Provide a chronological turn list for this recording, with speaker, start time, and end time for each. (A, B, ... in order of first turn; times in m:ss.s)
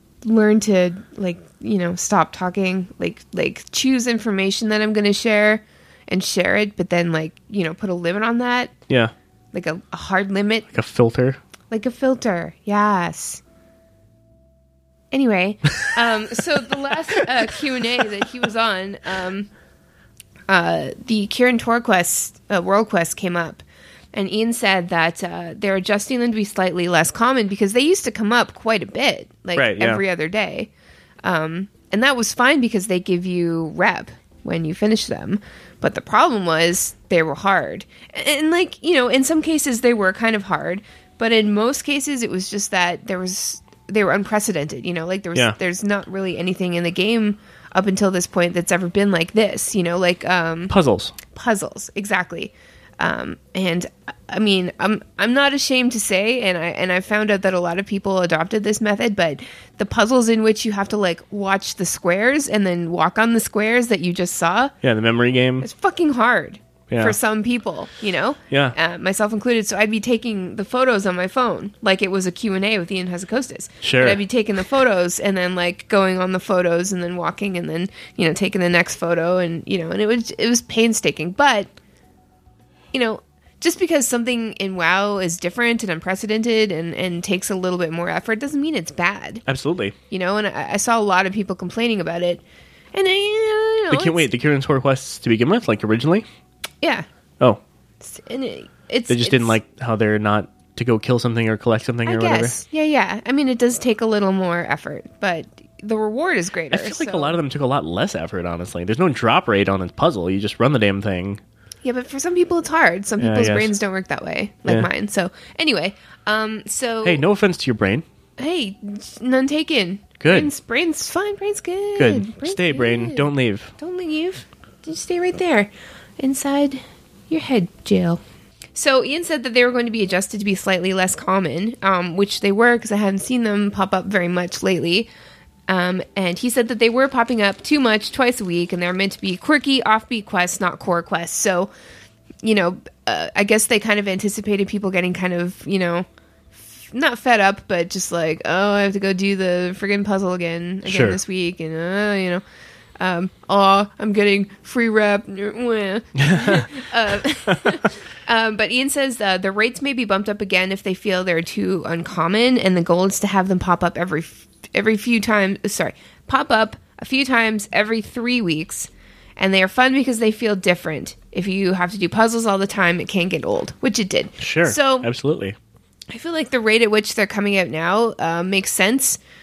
0:00.2-0:08.7 A
0:09.5-0:10.7 A
0:10.7-0:11.4 B
0:11.7-0:13.4 A
0:15.1-0:19.5 A
0:20.5-0:30.7 A
0:29.5-0:30.0 B
0:31.2-0:50.7 A
0:50.7-0:51.1 B
0:51.3-1:04.7 A
1:04.8-1:05.7 B
1:05.6-1:21.7 A
1:06.9-1:07.2 B
1:08.5-1:08.8 B
1:13.8-1:14.2 B
1:22.9-1:29.4 A
1:29.4-1:30.0 B
1:30.1-1:32.4 A
1:32.9-1:34.2 A
1:33.9-1:36.2 B
1:38.0-1:39.6 A
1:39.1-1:42.6 B
1:42.0-1:47.4 A
1:46.7-1:51.4 B
1:51.8-1:57.2 A
1:53.2-1:53.7 B
1:57.0-1:58.0 B
1:58.4-2:08.2 A
2:00.2-2:00.5 B
2:02.0-2:03.7 B
2:08.7-2:15.1 A
2:15.7-2:21.7 A
2:22.4-2:26.0 A
2:26.6-2:32.4 A
2:30.8-2:31.2 B
2:33.0-2:55.1 A
2:36.2-2:36.7 B
2:37.5-2:37.8 B
2:54.4-2:55.6 B
2:56.1-2:59.2 A